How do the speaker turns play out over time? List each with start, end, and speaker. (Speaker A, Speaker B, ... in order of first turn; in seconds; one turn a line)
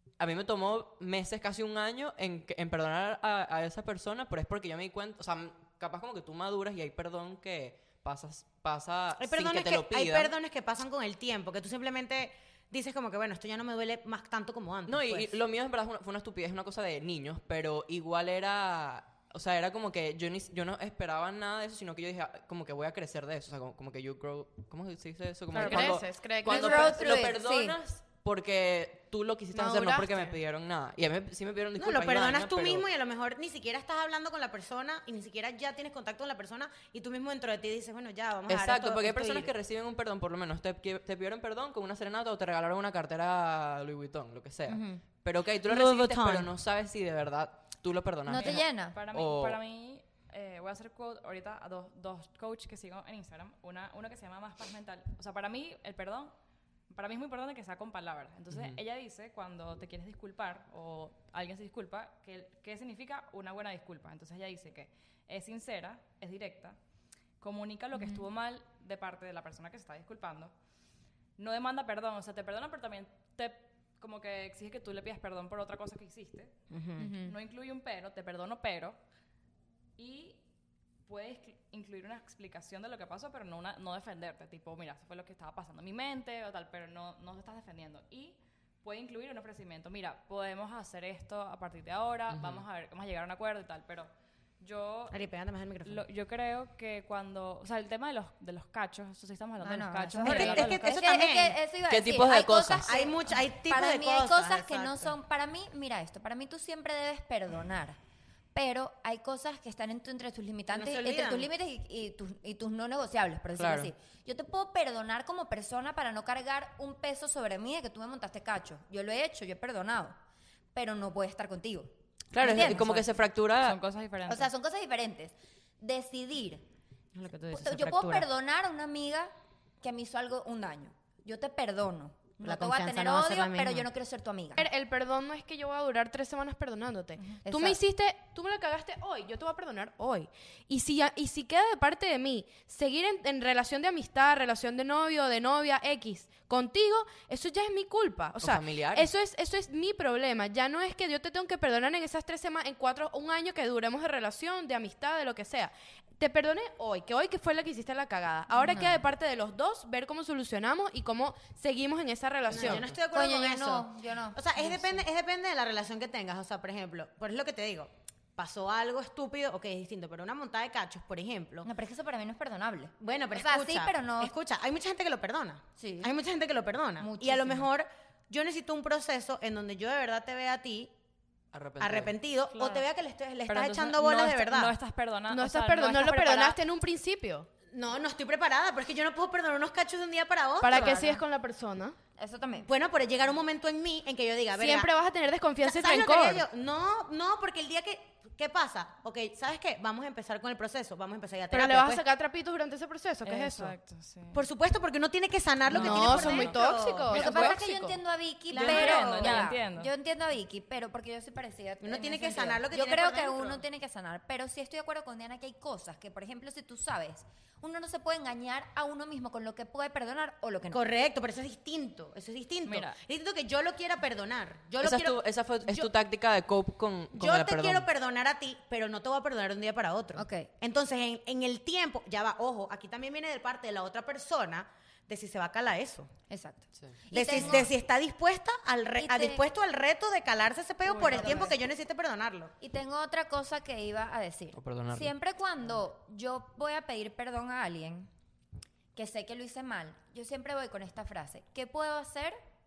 Speaker A: 0.2-10.3
Speaker B: 9.2-15.3
Speaker A: 14.9-32.9
Speaker C: 25.5-27.1
Speaker D: 25.6-27.8
Speaker C: 29.5-30.3
Speaker B: 31.8-39.5
Speaker A: 38.5-49.6
Speaker D: 44.7-45.0
Speaker B: 45.7-46.5
Speaker D: 48.2-49.0
Speaker E: 48.4-56.3
Speaker E: 56.9-66.8
Speaker A: 58.5-58.8
Speaker E: 67.4-70.5
Speaker D: 67.9-68.2
Speaker E: 71.4-76.5
Speaker B: 76.7-77.1
Speaker D: 77.0-77.3
Speaker E: 77.2-79.0
Speaker E: 80.0-80.4
Speaker E: 81.0-94.1
Speaker A: 92.3-92.6
Speaker E: 94.6-95.2
Speaker B: 95.1-96.0
Speaker E: 95.8-101.0
Speaker D: 99.6-108.0
Speaker B: 100.2-101.6
Speaker A: 101.9-102.9
Speaker B: 102.8-105.1
Speaker D: 108.5-120.2
Speaker B: 110.7-111.5
Speaker A: 113.6-113.9
Speaker D: 120.7-123.0
Speaker A: 122.3-123.8
Speaker E: 122.6-124.5
Speaker D: 124.3-126.6
Speaker B: 127.1-128.2
Speaker D: 127.5-134.7
Speaker B: 132.4-133.9
Speaker C: 134.6-162.9
Speaker D: 137.4-137.8
Speaker A: 148.4-149.1
Speaker D: 158.6-159.0
Speaker B: 162.5-171.7
Speaker D: 162.6-165.0
Speaker A: 162.6-162.9
Speaker D: 171.6-174.3
Speaker B: 173.0-180.9
Speaker D: 175.8-176.1
Speaker D: 177.0-177.7
Speaker A: 181.5-182.1
Speaker B: 181.8-184.7
Speaker E: 182.5-182.9
Speaker E: 183.5-186.6
Speaker C: 185.3-187.5
Speaker B: 187.7-191.2
Speaker C: 190.6-191.9
Speaker D: 192.2-192.7
Speaker B: 192.6-194.9
Speaker C: 194.6-196.4
Speaker B: 195.6-202.0
Speaker C: 201.5-203.8
Speaker E: 203.2-204.4
Speaker B: 204.3-207.5
Speaker E: 205.7-206.5
Speaker C: 205.7-208.0
Speaker D: 207.1-220.8
Speaker E: 207.1-207.5
Speaker B: 208.5-209.4
Speaker E: 208.5-209.9
Speaker B: 211.8-213.6
Speaker B: 220.7-225.9
Speaker E: 222.6-223.0
Speaker A: 224.8-227.9
Speaker B: 227.1-236.1
Speaker D: 230.2-230.5
Speaker D: 236.3-237.7
Speaker B: 237.1-242.5
Speaker D: 239.0-239.4
Speaker E: 240.9-241.5
Speaker D: 240.9-241.6
Speaker D: 242.6-248.1
Speaker A: 244.5-245.1
Speaker D: 248.9-252.4